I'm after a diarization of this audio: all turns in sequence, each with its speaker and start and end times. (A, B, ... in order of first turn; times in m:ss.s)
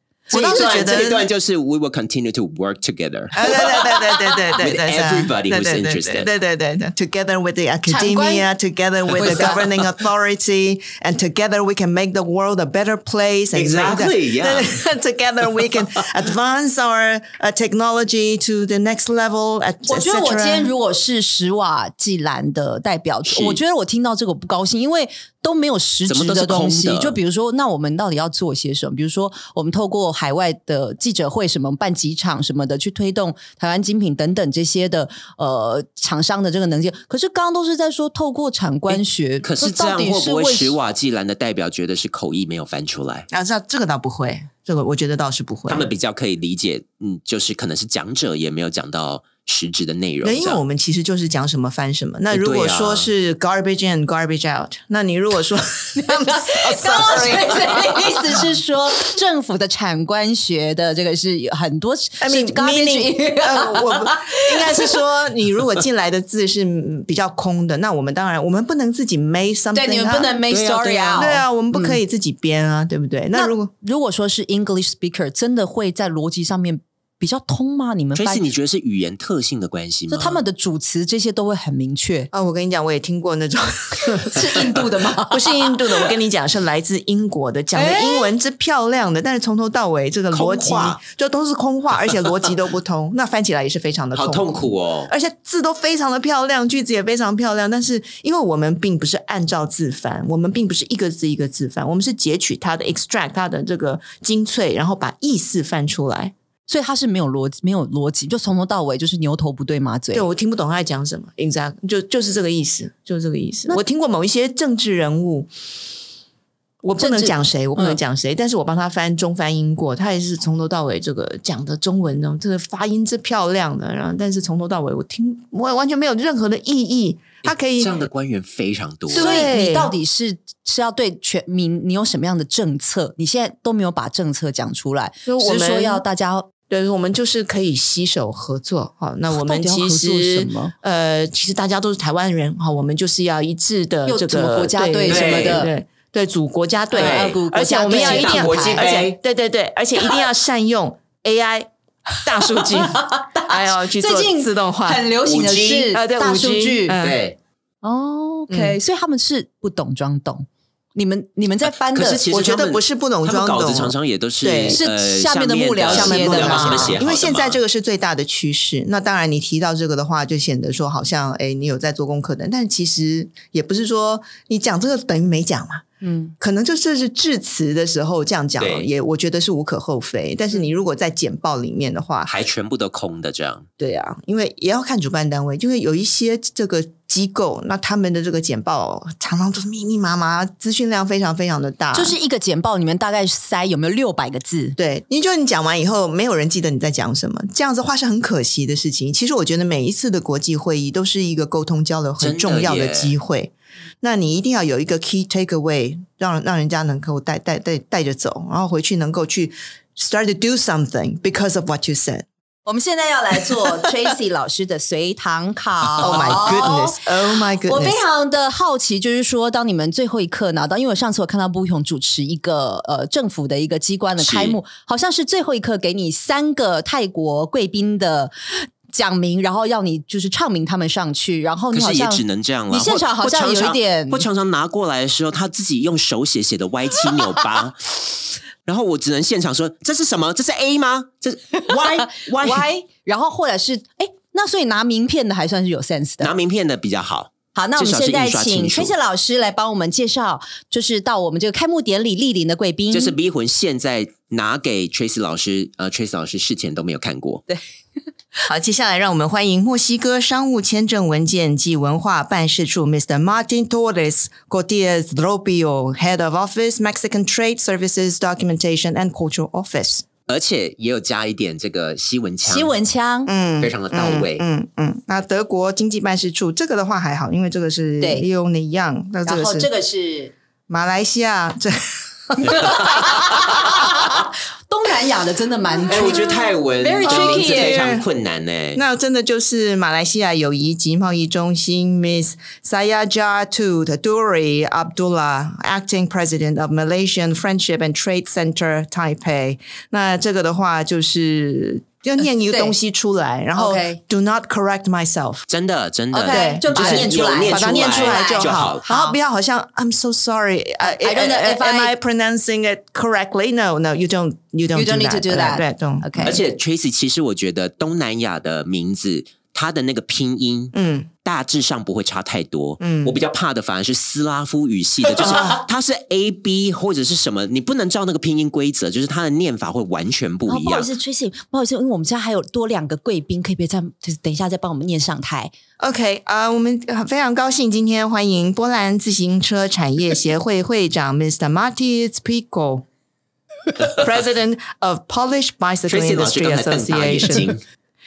0:00.3-0:01.3 A
0:00.3-0:03.4 B
0:03.3-0:20.7 A
0:04.6-0:06.3 B
0:07.9-0:08.5 C
0:09.2-0:09.7 B
0:09.2-0:09.6 C
0:13.5-0:14.8 B
0:19.9-0:40.8 C
0:23.2-0:23.6 B
0:26.1-0:27.2 B
0:38.9-0:43.3 B
0:43.3-0:45.9 A
0:45.7-0:50.6 B
0:50.2-0:58.5 A
0:52.3-0:53.1 B
0:56.0-1:05.0 C
1:02.2-1:10.4 A
1:09.7-1:12.0 C
1:10.5-1:11.4 B
1:11.2-1:13.7 A
1:13.3-1:18.4 C
1:18.2-1:20.4 B
1:20.1-1:22.3 C
1:22.3-1:46.3 A
1:24.3-1:25.8 C
1:27.7-1:28.3 C
1:30.3-1:31.0 B
1:34.1-1:35.1 B
1:46.7-1:50.2 C
1:50.1-1:55.5 A
1:56.8-2:08.1 A
1:57.0-1:58.0 C
2:07.5-2:09.5 B
2:09.1-2:09.9 A
2:09.1-2:16.5 C
2:15.3-2:16.0 A
2:16.7-2:35.1 A
2:19.3-2:20.7 C
2:24.1-2:25.7 C
2:25.1-2:25.6 B
2:26.9-2:28.9 C
2:27.0-2:27.4 B
2:27.9-2:29.2 B
2:32.4-2:37.0 C
2:35.2-2:35.9 B
2:35.9-2:37.2 A
2:37.0-2:37.4 B
2:37.8-2:42.2 C
2:38.5-2:38.8 A
2:41.9-2:47.6 B
2:42.2-2:44.8 A
2:44.7-2:47.0 C
2:45.9-2:55.9 A
2:56.0-2:56.3 C
2:56.4-3:02.3 A
2:58.6-2:58.9 B
3:02.3-3:03.7 B
3:03.8-3:12.2 A
3:11.9-3:14.8 C
3:14.8-3:32.3 A
3:22.2-3:23.1 B
3:32.7-3:54.3 C
3:33.5-3:33.9 A
3:36.0-3:36.6 B
3:36.0-3:38.0 A
3:44.2-3:44.6 B
3:51.7-4:02.7 B
4:01.6-4:06.3 C
4:06.2-4:08.9 B
4:07.6-4:13.2 C
4:12.9-4:17.4 B
4:18.5-4:30.0 A
4:30.3-4:32.7 B
4:32.4-4:33.3 C
4:33.3-4:39.7 A
4:33.6-4:34.4 B
4:38.0-4:38.3 C
4:39.3-4:40.3 C
4:40.7-4:42.8 A
4:42.4-4:47.9 C
4:45.9-4:48.8 B
4:47.0-4:48.1 A
4:48.8-5:05.5 A
5:02.5-5:02.8 C
5:03.6-5:04.0 C
5:05.5-5:08.8 B
5:06.1-5:09.2 C
5:06.2-5:16.4 A
5:10.8-5:12.0 C
5:14.8-5:16.4 C
5:16.2-5:30.9 B
5:20.7-5:21.1 A
5:22.8-5:23.2 A
5:25.2-5:25.6 A
5:30.5-5:35.5 C
5:35.8-5:42.9 A
5:43.9-5:47.5 A
5:45.9-5:47.6 B